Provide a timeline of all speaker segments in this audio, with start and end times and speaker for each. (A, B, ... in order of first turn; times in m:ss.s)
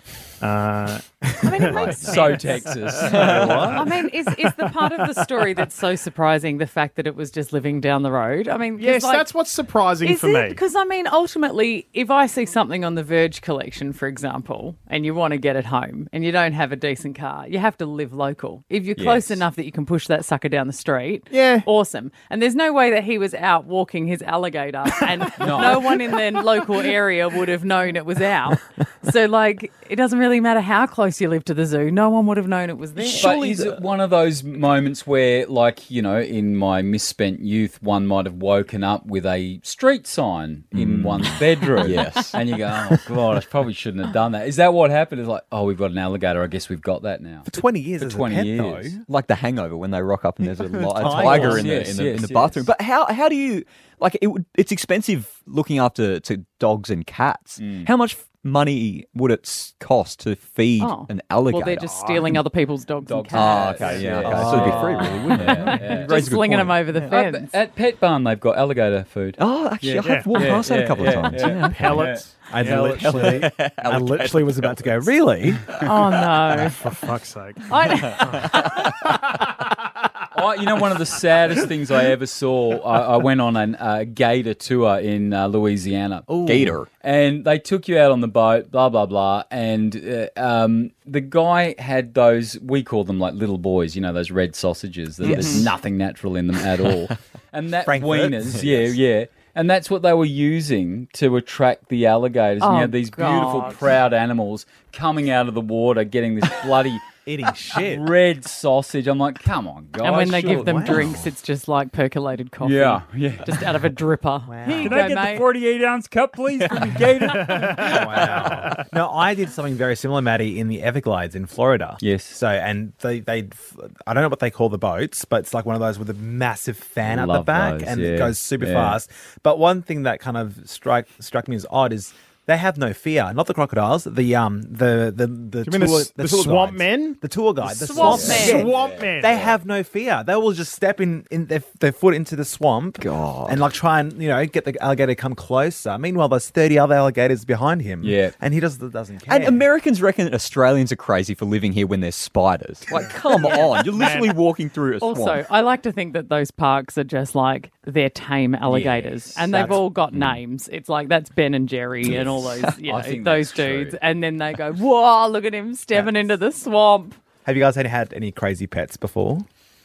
0:00.4-0:01.8 A
0:01.4-0:03.0 B
0:01.7-0:02.4 C
0:02.0-0:03.8 D
0:02.8-0:05.5 A
0:03.1-0:03.7 E
0:03.2-0:03.7 C
0:03.7-0:09.3 B
0:08.8-0:10.6 A
0:10.0-0:33.3 B
0:19.0-0:19.4 D
0:21.3-0:21.7 A
0:25.4-0:26.0 D
0:33.0-0:33.8 C
0:33.2-0:47.5 D
0:40.7-0:42.4 C
0:47.4-0:49.0 E
0:48.0-0:49.0 D
0:49.1-1:02.0 C
0:50.4-0:51.8 E
0:51.0-0:52.7 D
0:57.6-0:57.9 D
1:00.8-1:04.0 B
1:03.0-1:12.2 D
1:03.3-1:06.8 C
1:04.1-1:05.8 E
1:05.8-1:07.5 B
1:09.4-1:15.0 C
1:10.0-1:10.4 A
1:11.6-1:13.4 A
1:12.5-1:15.7 E
1:15.8-1:16.8 B
1:16.7-1:19.3 A
1:17.7-1:18.6 B
1:18.0-1:19.0 C
1:20.3-1:47.0 D
1:26.3-1:26.7 E
1:26.3-1:26.9 C
1:35.2-1:35.7 C
1:35.3-1:35.7 B
1:37.8-1:38.9 E
1:42.6-1:43.8 B
1:47.2-1:48.1 E
1:47.7-1:51.1 D
1:50.0-1:55.5 B
1:50.3-1:51.3 E
1:52.6-1:53.7 D
1:54.4-1:55.1 E
1:54.8-1:58.2 D
1:57.3-1:58.8 A
1:57.7-2:29.7 E
2:02.0-2:02.4 D
2:07.0-2:09.0 D
2:15.6-2:17.2 A
2:17.9-2:18.7 B
2:17.9-2:19.4 A
2:17.9-2:19.5 D
2:18.1-2:18.5 C
2:23.0-2:23.6 C
2:28.0-2:28.3 D
2:29.3-2:35.4 C
2:33.0-2:34.4 A
2:35.0-2:47.2 B
2:38.7-2:39.1 D
2:39.5-2:39.8 E
2:42.0-2:42.7 C
2:42.8-2:44.0 D
2:47.4-2:49.5 E